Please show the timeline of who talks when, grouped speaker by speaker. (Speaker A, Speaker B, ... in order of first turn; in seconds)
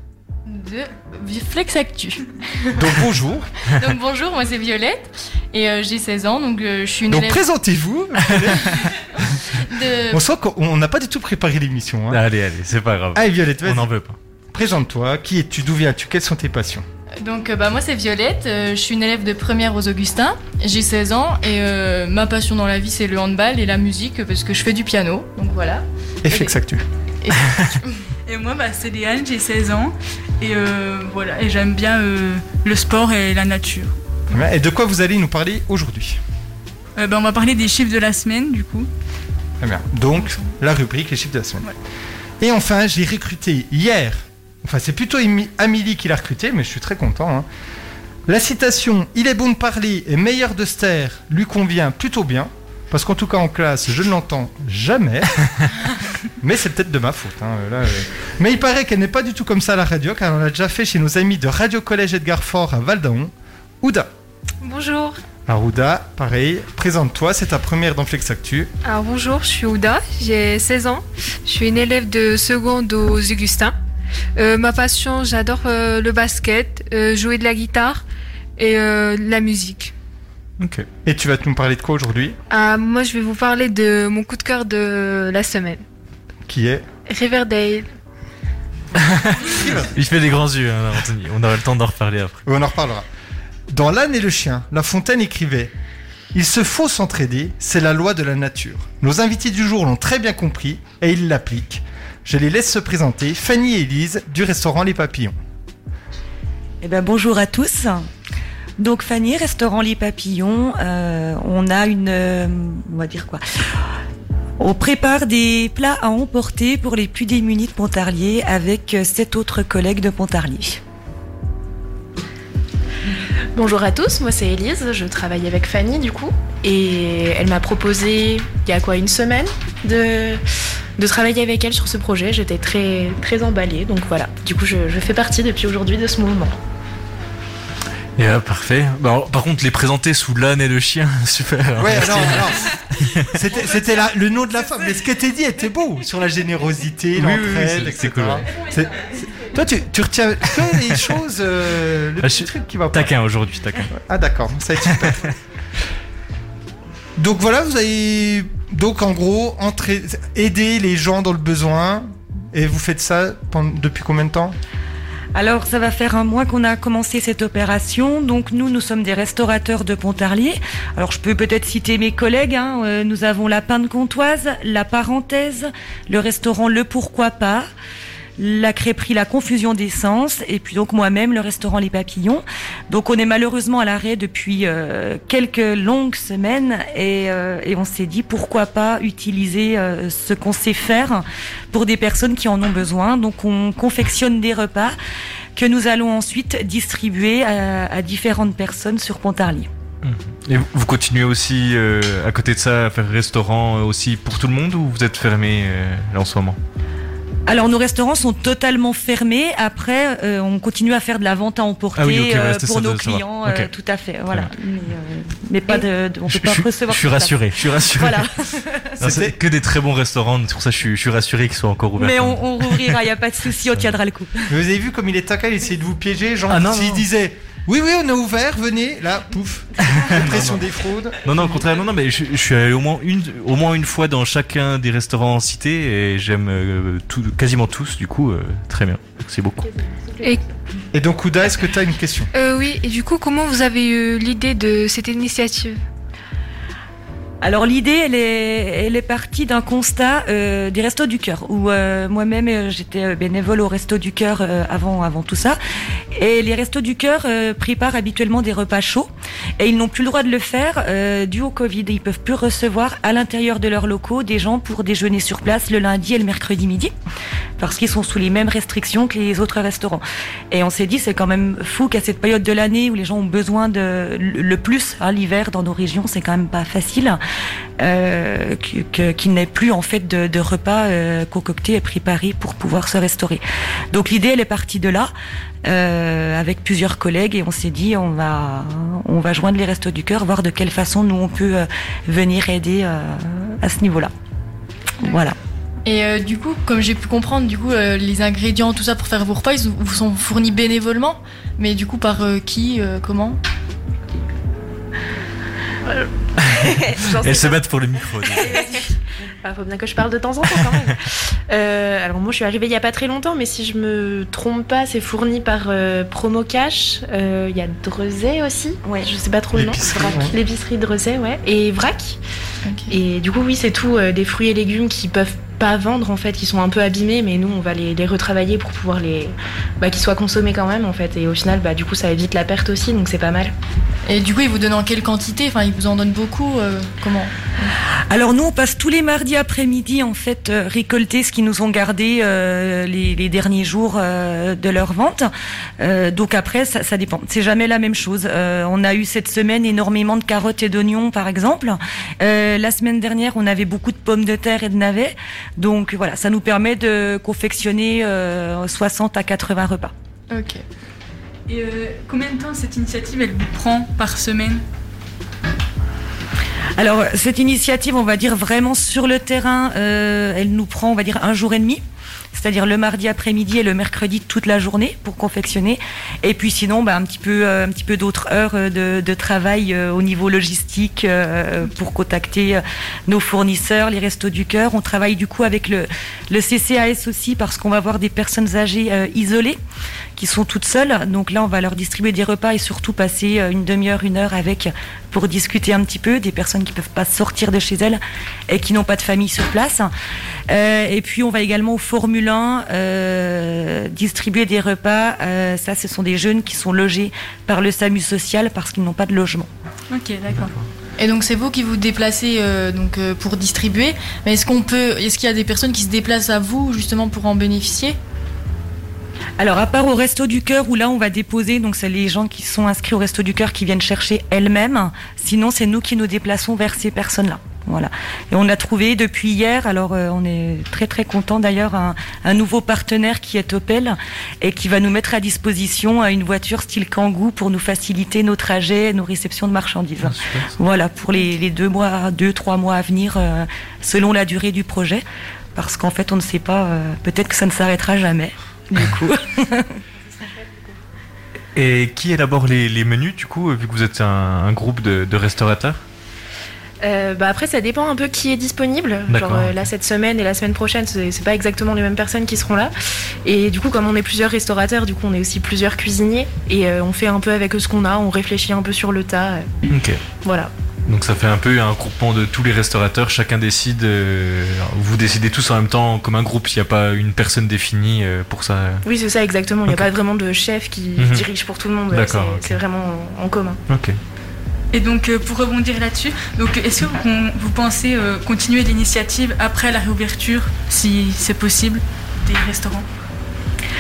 Speaker A: 0.5-2.8, 3.8-7.4, 9.3-10.2, 17.2-26.5, 27.2-28.0, 295.9-303.4, 322.6-322.9, 334.1-337.7, 360.3-360.6, 411.0-418.0
Speaker B: 2.8-3.5, 7.1-9.0, 10.1-12.2, 13.1-13.9, 14.5-16.8, 26.2-26.8, 34.3-36.2, 39.6-41.7, 42.4-47.5, 48.3-55.7, 56.4-64.1, 65.5-68.7, 81.0-82.4, 86.5-86.9, 89.4-89.9, 92.5-93.1, 93.7-95.7, 96.3-105.4, 141.8-142.7, 143.3-153.1, 153.9-155.3, 157.2-164.6, 219.0-219.4, 224.5-231.3, 240.9-242.3, 319.5-320.4
Speaker C: 12.1-14.2, 80.6-80.9, 89.1-89.4, 89.9-92.4, 138.2-143.3, 147.2-148.4, 150.6-151.0, 152.2-153.9, 200.0-206.6, 212.0-213.7, 216.3-218.3, 219.0-223.0, 226.5-227.1, 229.9-230.6, 231.2-239.7, 306.4-308.7, 440.0-440.5, 451.6-455.8, 459.1-459.5, 469.7-470.0, 470.9-478.8, 481.0-481.2, 481.9-482.6, 483.7-484.0
Speaker D: 28.3-33.9, 37.0-38.9, 361.5-364.6, 409.9-410.5, 484.7-492.9
Speaker E: 64.6-65.2, 68.8-73.7, 74.4-78.0, 78.6-79.9, 82.5-85.8, 87.1-87.9, 242.3-245.8
Speaker F: 106.8-108.1, 108.8-113.4, 114.6-120.8, 165.3-177.7, 178.4-195.0, 195.6-199.7, 207.5-217.4, 217.9-218.9, 222.0-224.5, 247.4-255.6, 256.1-266.9, 267.6-277.2, 277.8-285.1, 285.6-294.1, 295.0-295.4, 338.1-359.9, 366.8-371.8, 372.3-389.6, 390.2-399.9, 400.5-409.5, 419.4-445.0, 445.6-449.7
Speaker G: 123.5-130.4, 131.0-136.6, 305.9-307.6, 308.4-308.9, 309.4-322.2, 322.9-333.5, 456.8-462.7, 463.2-469.5, 470.2-470.5, 478.9-483.6